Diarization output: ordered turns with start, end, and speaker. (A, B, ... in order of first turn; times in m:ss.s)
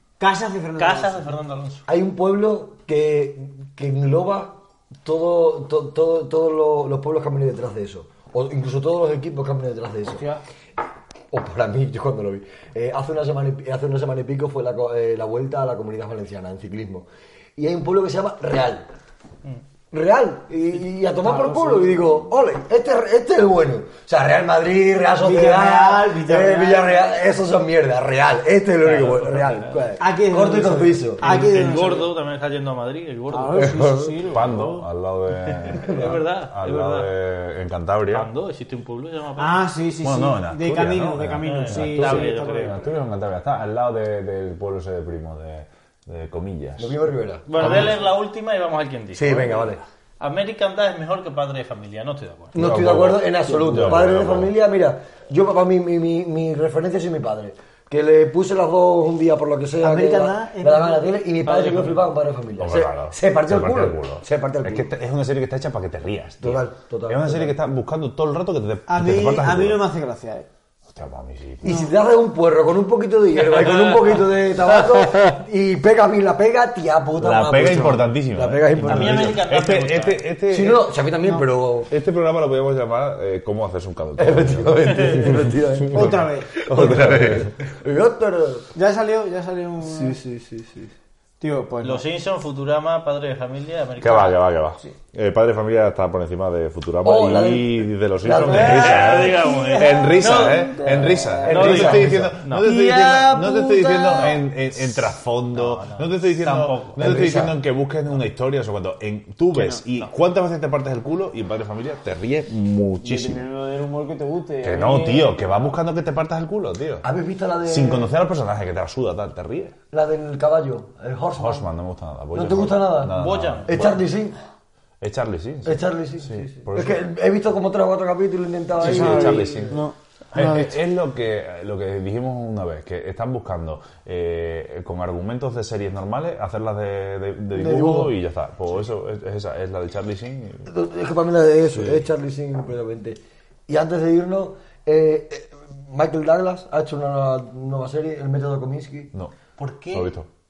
0:00.2-0:01.3 A
0:00.8-0:01.8 B
0:01.9-0:10.2 C
0:11.3-0:18.9 C
0:19.9-0:31.3 C
0:21.2-0:22.0 A
0:25.2-0:27.1 A
0:28.8-0:29.8 B
0:30.0-0:32.1 A
0:31.2-0:33.8 B
0:33.3-0:34.9 A
0:33.6-0:34.3 C
0:34.3-0:38.3 D
0:35.5-0:37.1 B
0:35.9-0:36.2 C
0:38.1-0:39.6 B
0:39.4-0:42.9 A
0:40.0-0:47.0 D
0:41.4-0:42.8 B
0:46.8-0:48.0 C
0:47.5-0:52.6 B
0:47.6-0:48.0 A
0:49.1-0:49.8 C
0:52.5-1:04.9 C
0:52.6-0:54.5 D
0:59.8-1:01.2 A
1:01.4-1:02.1 B
1:02.6-1:09.9 D
1:06.4-1:07.5 C
1:08.9-1:10.5 A
1:10.9-1:11.8 D
1:11.6-1:19.4 C
1:11.7-1:12.0 A
1:13.5-1:14.1 B
1:17.2-1:20.9 D
1:17.6-1:18.0 A
1:18.9-1:20.3 B
1:20.5-1:21.9 C
1:21.9-1:27.6 D
1:24.2-1:28.7 C
1:25.9-1:26.6 A
1:28.8-1:30.2 A
1:29.8-1:30.9 C
1:31.4-1:32.1 A
1:31.8-1:34.4 B
1:34.0-1:53.5 D
1:37.0-1:39.3 C
1:38.4-1:39.8 A
1:38.5-1:44.4 B
1:40.8-1:42.4 C
1:40.9-1:41.8 A
1:42.6-1:44.3 A
1:45.5-1:47.0 B
1:47.0-1:47.6 C
1:49.5-1:49.8 A
1:53.0-1:55.8 A
1:54.6-1:57.1 D
1:57.0-1:58.1 C
1:57.7-1:59.8 D
1:59.9-2:01.7 C
2:01.4-2:03.9 D
2:02.3-2:04.4 C
2:03.1-2:04.0 B
2:05.0-2:07.0 D
2:05.6-2:09.7 C
2:08.8-2:10.8 A
2:08.8-2:20.7 D
2:17.5-2:18.1 C
2:20.7-2:29.1 C
2:21.7-2:22.1 D
2:29.6-2:30.1 B
2:29.9-2:30.3 D